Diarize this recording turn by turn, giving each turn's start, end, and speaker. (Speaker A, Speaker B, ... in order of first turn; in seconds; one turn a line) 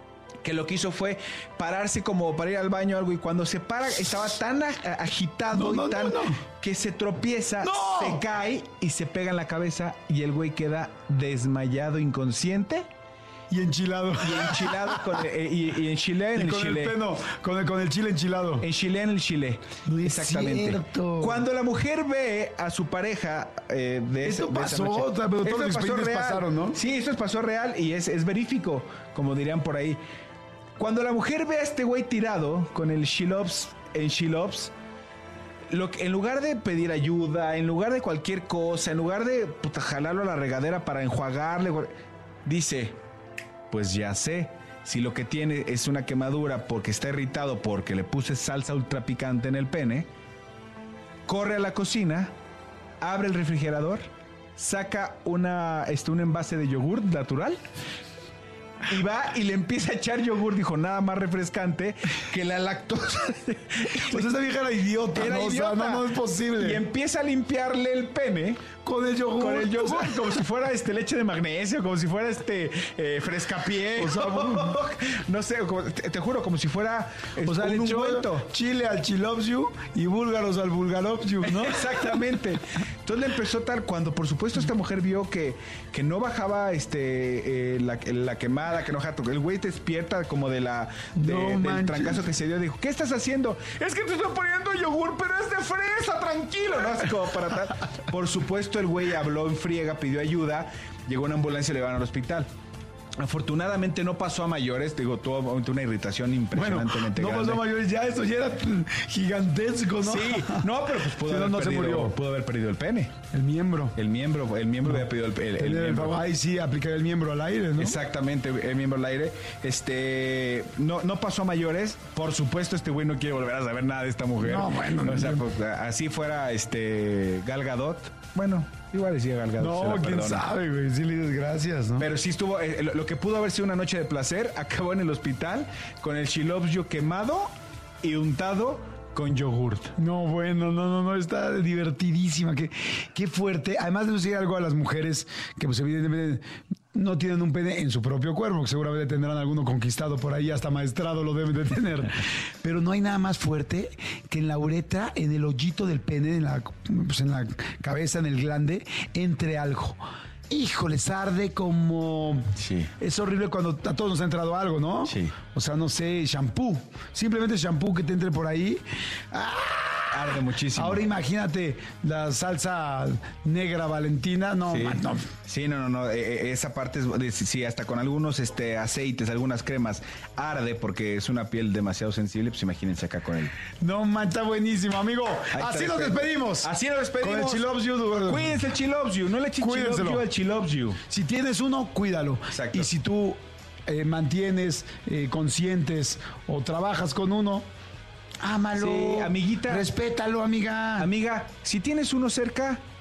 Speaker A: 0.4-12.9
Speaker B: 5.5-6.4
Speaker B: 7.6-8.2
Speaker B: 13.5-15.1
Speaker A: 14.2-17.0
Speaker B: 16.4-18.7
Speaker A: 18.6-30.0
Speaker B: 19.8-21.4
Speaker B: 24.2-26.8
Speaker A: 30.8-34.7
Speaker A: 35.7-41.9
Speaker A: 42.5-43.0
Speaker A: 43.7-50.1
Speaker A: 51.3-52.3
Speaker A: 53.0-57.6
Speaker A: 58.9-64.3
Speaker B: 64.1-66.8
Speaker A: 65.1-68.7
Speaker B: 68.8-70.2
Speaker A: 69.4-78.5
Speaker B: 74.0-74.8
Speaker B: 77.5-81.9
Speaker A: 81.5-102.5
Speaker B: 91.2-92.2
Speaker A: 103.2-107.7
Speaker B: 106.5-112.2
Speaker A: 110.0-113.1
Speaker B: 113.3-114.0
Speaker A: 114.0-116.2
Speaker B: 115.5-118.0
Speaker A: 117.8-130.5
Speaker B: 124.4-125.5
Speaker B: 129.6-132.1
Speaker A: 132.0-139.9
Speaker B: 140.0-175.3
Speaker A: 162.6-162.9
Speaker A: 165.1-165.4
Speaker A: 170.1-171.0
Speaker A: 174.7-183.5
Speaker B: 183.8-188.6
Speaker A: 185.5-191.0
Speaker B: 189.6-190.3
Speaker B: 191.1-197.7
Speaker A: 192.5-192.9
Speaker B: 198.4-201.1
Speaker A: 198.8-199.9
Speaker A: 201.0-202.8